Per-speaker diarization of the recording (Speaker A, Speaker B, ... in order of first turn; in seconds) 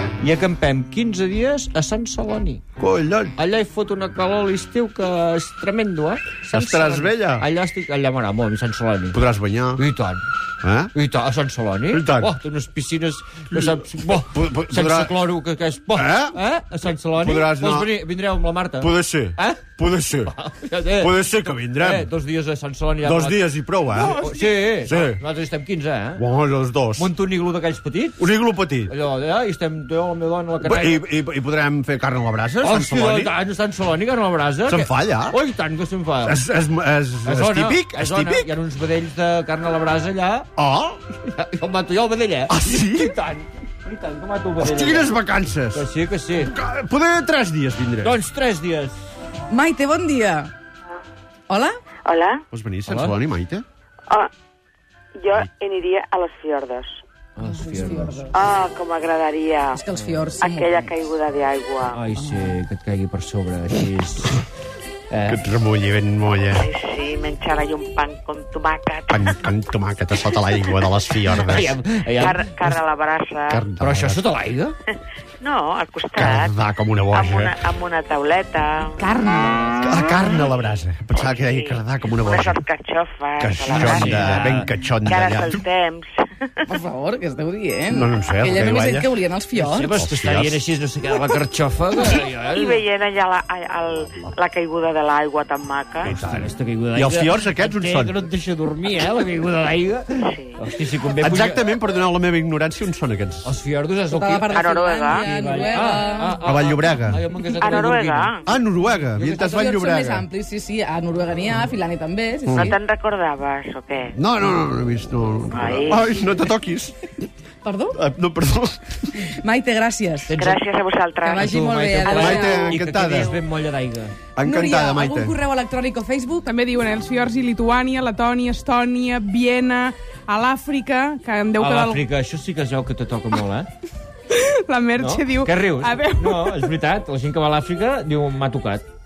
Speaker A: 0.2-2.6, 3.4-9.2, 9.8-10.2, 10.9-19.7, 20.2-26.2, 26.9-28.2, 28.9-31.0, 32.6-36.4, 37.2-40.5, 41.3-45.1, 45.7-46.5, 48.0-49.0, 52.9-53.1, 57.4-58.1, 59.9-60.2, 61.9-64.4, 65.1-65.4, 71.5-72.8, 73.8-74.8, 83.7-84.7, 89.5-92.8, 96.0-101.7, 103.4-104.5, 105.1-108.4, 109.2-109.7, 120.3-120.7, 121.3-124.2, 131.6-133.7, 135.0-138.8
Speaker B: 2.8-3.3, 6.5-7.5, 9.1-9.8, 10.6-10.9, 11.9-12.3, 13.5-15.2, 15.9-16.4, 17.1-17.9, 18.8-20.3, 20.9-22.1, 23.0-25.2, 26.2-27.1, 28.2-28.9, 30.6-33.3, 34.6-35.4, 36.2-38.5, 40.5-41.0, 42.5-43.1, 44.6-45.9, 46.4-48.2, 52.5-53.6, 65.3-66.7, 69.1-71.8, 73.5-74.2, 76.2-77.6, 79.8-82.6, 83.4-85.6, 87.9-89.1, 89.9-90.6, 96.0-98.2, 101.2-103.5, 106.4-107.2, 108.5-110.2, 112.5-112.7, 114.1-117.2, 117.9-119.2, 122.1-123.4, 124.3-125.3
Speaker C: 49.5-50.5, 51.5-51.7, 57.4-58.3, 59.7-60.9, 79.0-79.8, 86.7-90.0, 104.1-106.4, 109.4-112.8, 117.6-118.0, 119.3-120.4, 121.2-122.7, 124.4-126.5
Speaker D: 52.0-52.4, 55.1-57.0, 58.3-59.8, 60.4-62.0, 66.6-69.3, 72.2-73.7, 75.4-76.6, 77.1-79.0, 79.8-86.6, 92.2-96.1, 100.2-100.5, 104.5-105.3, 107.5-108.4, 112.5-114.1, 115.5-116.1, 120.3-121.5, 122.0-122.7
Speaker E: 126.5-132.1, 134.3-136.7